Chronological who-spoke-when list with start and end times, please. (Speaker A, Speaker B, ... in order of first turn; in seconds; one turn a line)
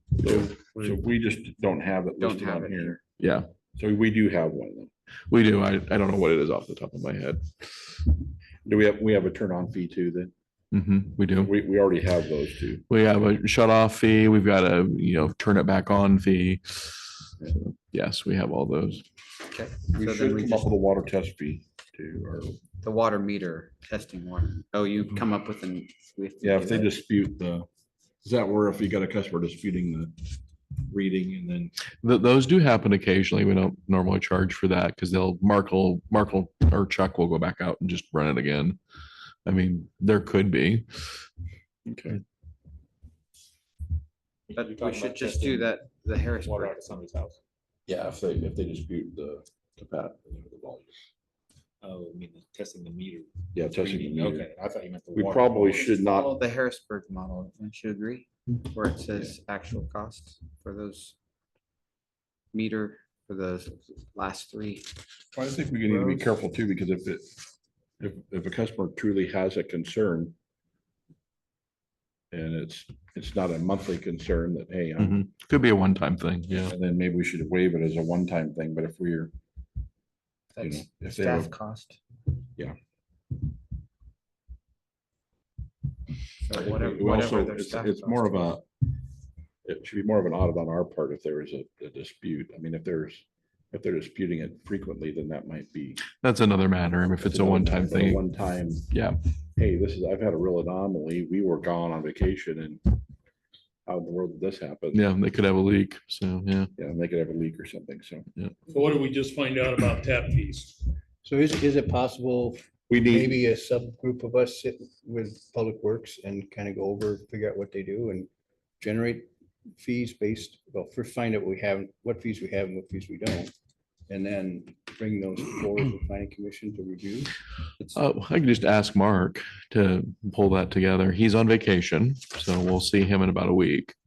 Speaker A: 0.2-3.0
Speaker B: 0.6-1.0
Speaker C: 2.2-3.0
Speaker D: 3.2-3.5
Speaker A: 3.8-4.9
Speaker D: 5.3-7.9
Speaker A: 8.6-10.3
Speaker D: 10.7-11.5
Speaker A: 11.3-12.8
Speaker D: 12.9-19.0
Speaker C: 19.5-20.7
Speaker A: 19.9-22.6
Speaker C: 22.8-26.9
Speaker A: 26.4-27.7
Speaker A: 28.2-30.1
Speaker A: 30.8-31.7
Speaker D: 32.0-38.8
Speaker D: 39.4-41.2
Speaker D: 41.9-42.2
Speaker E: 44.5-45.7
Speaker C: 44.5-46.8
Speaker E: 46.2-47.4
Speaker A: 47.9-50.9
Speaker E: 51.8-55.7
Speaker A: 53.5-54.5
Speaker A: 55.1-56.3
Speaker C: 55.7-61.1
Speaker C: 62.5-64.9
Speaker A: 65.3-67.3
Speaker A: 68.0-70.3
Speaker A: 72.3-75.2
Speaker D: 75.0-76.7
Speaker A: 76.7-79.3
Speaker C: 80.5-82.0
Speaker A: 80.6-81.5
Speaker C: 86.4-88.3
Speaker A: 86.5-88.6
Speaker A: 89.7-96.0
Speaker D: 96.1-98.2
Speaker A: 97.2-98.9
Speaker D: 98.9-99.2
Speaker A: 99.5-102.8
Speaker A: 103.8-105.0
Speaker D: 104.9-106.7
Speaker A: 106.8-108.2
Speaker B: 108.7-110.8
Speaker F: 111.2-118.3
Speaker A: 112.9-113.3
Speaker F: 118.8-123.5
Speaker F: 124.1-127.3
Speaker D: 127.9-133.9